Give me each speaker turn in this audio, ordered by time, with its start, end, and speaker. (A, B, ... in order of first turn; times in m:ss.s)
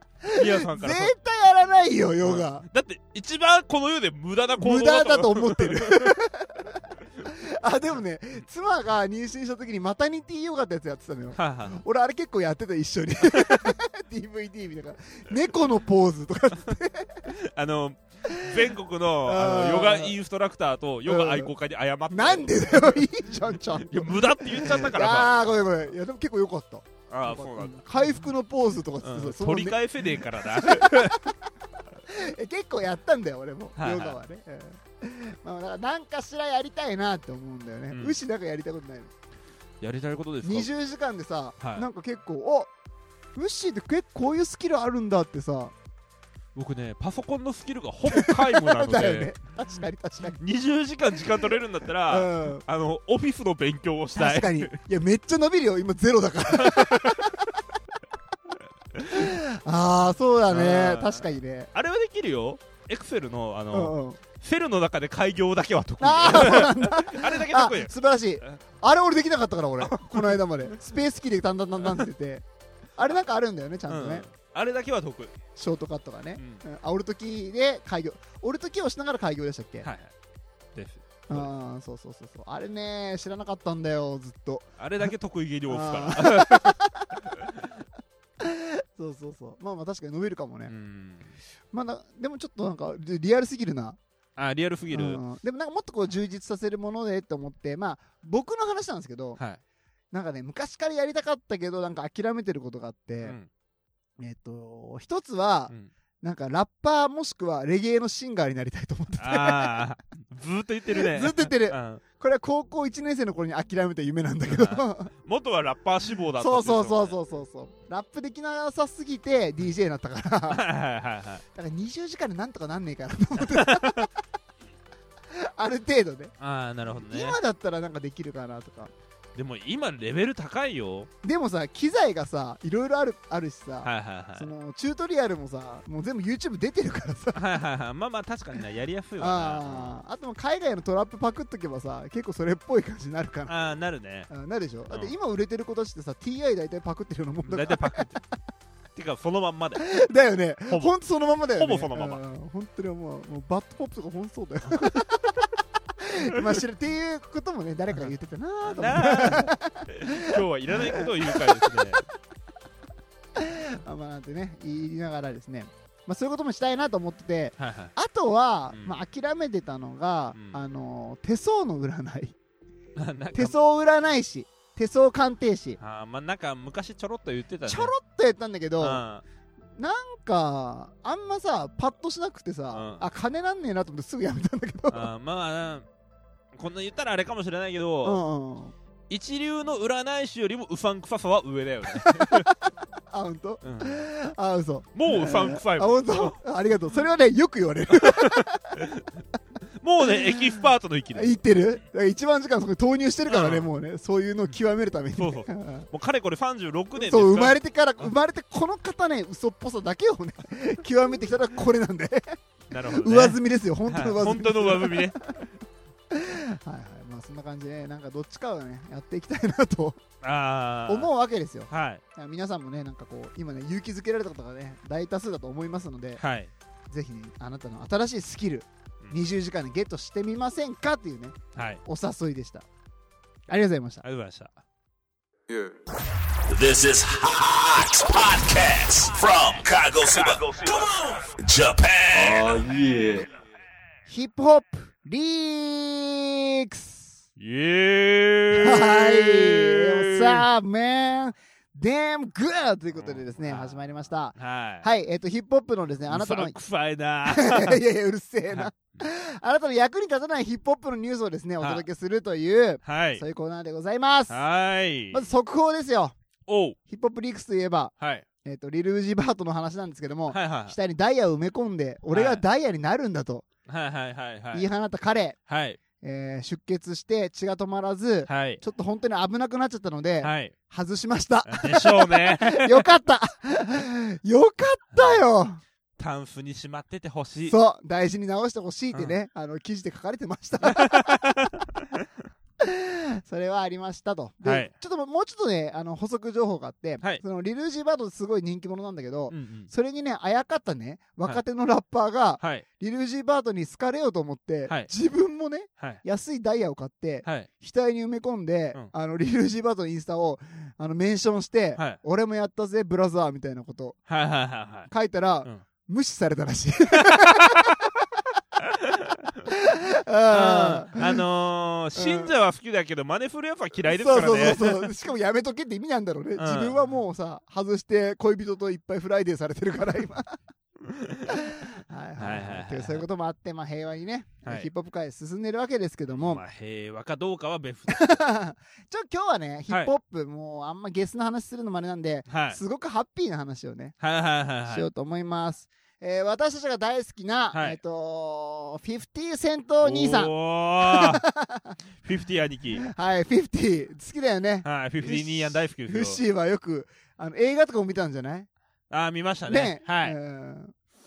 0:00.2-0:02.6 A
0:00.3-0:01.1 B
0:02.2-0:06.2 B
0:04.6-0:17.3 A
0:11.3-0:11.8 B
0:13.3-0:13.7 B
0:17.2-0:25.5 B
0:18.3-0:18.6 A
0:19.2-0:20.2 A
0:21.0-0:21.5 A
0:22.1-0:31.4 A
0:27.1-0:27.8 B
0:29.0-0:31.2 B
0:32.0-0:39.1 A
0:33.8-0:34.2 B
0:37.9-0:38.2 B
0:39.8-0:40.7 B
0:40.4-0:42.7 A
0:41.6-0:41.8 B
0:43.3-0:45.7 A
0:46.5-0:49.3 B
0:48.1-0:50.4 A
0:50.4-0:54.8 B
0:52.1-0:52.6 A
0:54.2-0:57.5 A
0:56.5-0:57.3 B
0:58.9-0:59.3 B
0:59.1-1:01.7 A
1:00.5-1:08.6 B
1:03.7-1:04.2 A
1:06.0-1:12.4 A
1:09.8-1:10.8 B
1:13.0-1:14.3 A
1:13.9-1:15.4 B
1:15.6-1:19.9 A
1:16.4-1:16.6 B
1:19.8-1:20.1 B
1:20.7-1:21.5 B
1:21.3-1:25.0 A
1:24.8-1:27.6 B
1:25.7-1:27.2 A
1:28.4-1:30.7 A
1:30.7-1:31.4 B
1:31.7-1:34.0 A
1:34.4-1:35.2 B
1:34.9-1:39.4 A
1:40.1-1:43.4 A
1:43.2-1:43.5 B
1:44.2-1:49.8 A
1:49.2-1:52.0 B
1:50.9-1:55.1 A
1:54.5-1:57.2 B
1:56.4-2:00.6 A
2:00.5-2:01.4 B
2:01.5-2:04.1 A
2:03.4-2:04.1 B
2:05.3-2:06.3 A
2:06.4-2:07.4 B
2:07.0-2:08.9 A
2:09.3-2:11.1 B
2:11.2-2:17.4 A
2:13.8-2:14.5 B
2:17.3-2:20.0 B
2:19.2-2:23.5 A
2:23.5-2:24.3 B
2:24.3-2:28.2 A
2:27.4-2:28.2 B
2:28.9-2:29.9 B
2:29.8-2:35.3 A
2:31.6-2:32.2 B
2:36.0-2:42.0 A
2:38.6-2:42.1 B
2:43.4-2:52.4 A
2:47.6-2:47.9 B
2:48.7-2:48.9 B
2:50.3-2:50.6 B
2:53.0-2:53.6 B
2:53.3-2:55.8 A
2:55.8-2:57.9 B
2:57.6-2:59.0 A
2:58.8-2:59.2 B
2:59.7-3:05.1 A
3:02.7-3:03.1 B
3:04.9-3:05.9 B
3:06.5-3:08.2 B
3:08.0-3:08.7 A
3:09.1-3:12.5 B
3:11.9-3:18.8 A
3:13.6-3:14.1 B
3:14.9-3:16.4 B
3:17.9-3:19.2 B
3:19.8-3:21.4 B
3:20.0-3:25.9 A
3:23.3-3:23.7 B
3:25.2-3:27.6 B
3:27.0-3:32.4 A
3:32.7-3:35.2 B
3:32.9-3:35.4 A
3:36.1-3:40.0 A
3:40.2-3:41.1 B
3:40.9-3:46.2 A
3:41.7-3:42.0 B
3:46.2-3:46.5 B
3:46.9-3:52.6 A
3:51.5-3:51.8 B
3:53.5-3:54.0 A
3:54.0-3:54.6 B
3:56.5-4:03.2 C
4:04.1-4:07.2 A
4:07.4-4:10.4 B
4:08.5-4:16.5 A
4:12.9-4:14.9 B
4:16.1-4:17.8 B
4:17.2-4:24.4 A
4:18.5-4:18.8 B
4:21.6-4:21.8 B
4:22.8-4:23.2 B
4:24.3-4:25.3 B
4:25.1-4:26.1 A
4:26.5-4:26.8 B
4:26.9-4:33.4 A
4:28.0-4:28.2 B
4:30.3-4:30.8 B
4:32.1-4:32.4 B
4:33.7-4:34.6 B
4:34.5-4:35.4 A
4:35.5-4:35.8 B
4:36.0-4:45.6 A
4:38.2-4:38.6 B
4:40.2-4:40.5 B
4:41.5-4:42.8 B
4:44.9-4:45.2 B
4:46.0-4:47.6 B
4:47.5-4:51.4 A
4:50.6-4:52.0 B
4:52.6-5:14.0 A
4:54.4-4:54.7 B
4:59.3-4:59.7 B
5:02.4-5:02.6 B
5:07.2-5:07.5 B
5:14.1-5:14.9 B
5:14.9-5:17.8 A
5:16.9-5:17.7 B
5:18.6-5:19.4 B
5:19.5-5:21.2 A
5:20.3-5:24.9 B
5:22.0-5:22.3 A
5:23.9-5:30.4 A
5:26.4-5:26.8 B
5:30.8-5:31.4 B
5:31.3-5:36.4 A
5:32.2-5:33.0 B
5:36.1-5:38.1 B
5:37.9-5:44.0 A
5:42.3-5:42.6 B
5:44.0-5:44.9 B
5:44.7-5:51.8 A
5:47.5-5:47.8 B
5:49.8-5:51.2 B
5:52.0-5:52.9 B
5:52.8-5:58.5 A
5:54.6-5:56.2 B
5:58.9-6:00.2 B
5:59.4-6:00.7 A